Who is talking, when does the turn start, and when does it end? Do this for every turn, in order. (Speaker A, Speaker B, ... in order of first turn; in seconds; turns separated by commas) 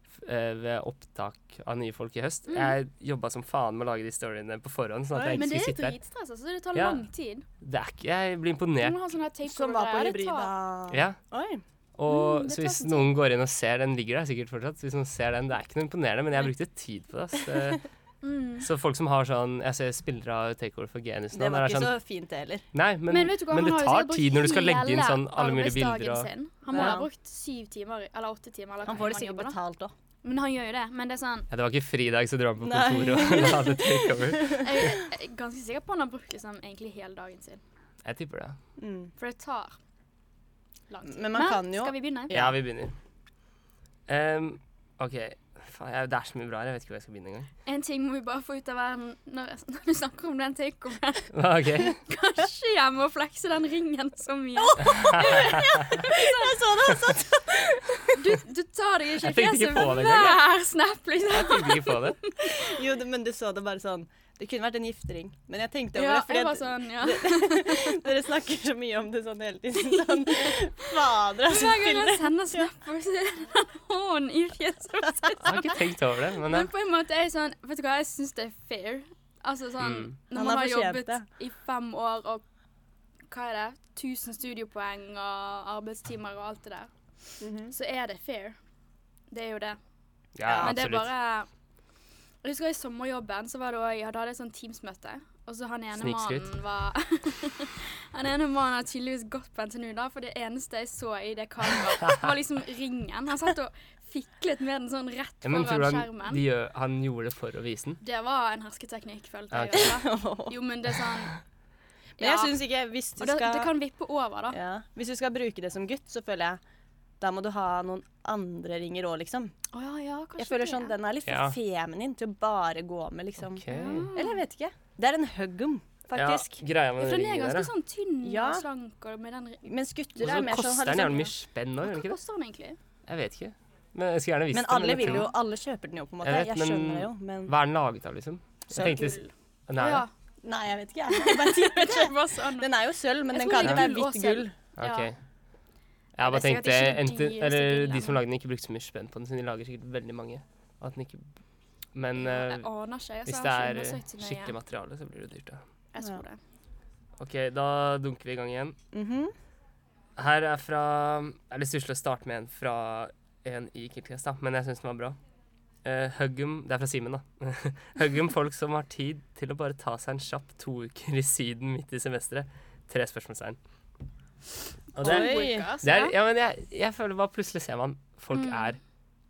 Speaker A: 0.2-6.0, Speaker B: 2.5-2.7, Speaker C: 5.1-5.5, Speaker B: 5.3-7.5, Speaker A: 6.8-7.0, Speaker A: 7.6-9.0, Speaker B: 8.8-10.5, Speaker C: 9.4-11.6, Speaker A: 10.9-11.2, Speaker A: 12.0-17.9, Speaker B: 12.1-13.1, Speaker B: 18.2-18.7, Speaker A: 18.6-21.9, Speaker C: 21.3-22.6, Speaker A: 22.7-27.0, Speaker B: 23.1-29.6, Speaker C: 26.7-27.1, Speaker C: 28.9-29.9, Speaker B: 30.2-31.5, Speaker A: 31.5-34.7, Speaker C: 32.6-35.0, Speaker B: 34.6-37.6, Speaker A: 38.0-38.6, Speaker C: 38.8-39.1, Speaker B: 39.2-39.8, Speaker B: 40.9-42.3, Speaker C: 41.1-42.5, Speaker A: 42.3-42.9, Speaker A: 44.1-47.5, Speaker B: 47.6-51.3, Speaker A: 51.3-52.0, Speaker B: 51.9-56.6, Speaker C: 54.6-58.2, Speaker A: 55.0-55.7, Speaker B: 58.1-62.8, Speaker A: 59.2-60.4, Speaker A: 61.3-62.2, Speaker C: 62.5-72.7, Speaker B: 66.0-68.0, Speaker B: 69.8-75.8, Speaker A: 75.4-76.7, Speaker B: 76.4-82.4, Speaker A: 79.8-80.1, Speaker C: 80.3-81.2, Speaker B: 83.3-88.6, Speaker C: 87.4-87.7, Speaker B: 89.3-89.8, Speaker A: 90.4-91.1, Speaker C: 90.5-90.8, Speaker B: 90.6-91.5, Speaker B: 92.4-106.4, Speaker A: 96.0-96.5, Speaker A: 105.4-108.0, Speaker B: 108.0-111.4, Speaker A: 109.5-109.9, Speaker C: 109.7-110.5, Speaker B: 112.2-112.6, Speaker C: 112.2-113.7, Speaker B: 113.2-114.6, Speaker C: 114.5-116.6, Speaker C: 117.2-119.5, Speaker B: 119.7-120.9, Speaker C: 120.4-126.6, Speaker A: 121.3-121.6, Speaker A: 123.5-124.1, Speaker B: 123.7-124.4, Speaker A: 126.2-127.7, Speaker B: 127.0-129.6, Speaker C: 128.2-128.7, Speaker C: 129.6-131.3, Speaker A: 130.2-132.2, Speaker B: 131.8-132.8, Speaker A: 133.1-135.3, Speaker C: 134.5-137.5, Speaker B: 135.0-135.3, Speaker A: 136.2-140.1, Speaker C: 138.7-139.0, Speaker B: 138.7-140.1, Speaker C: 140.4-144.6, Speaker B: 141.1-142.7, Speaker B: 143.3-145.1, Speaker A: 143.6-143.9, Speaker A: 144.8-145.2, Speaker A: 146.2-151.3, Speaker B: 146.2-148.2, Speaker A: 151.9-152.7, Speaker B: 152.2-154.6, Speaker A: 153.3-155.6, Speaker B: 155.9-156.4, Speaker A: 157.2-158.8, Speaker C: 158.9-159.3, Speaker A: 160.2-165.2, Speaker A: 165.8-173.6, Speaker A: 174.9-178.8, Speaker B: 175.0-176.1, Speaker C: 175.0-175.7, Speaker B: 178.3-178.8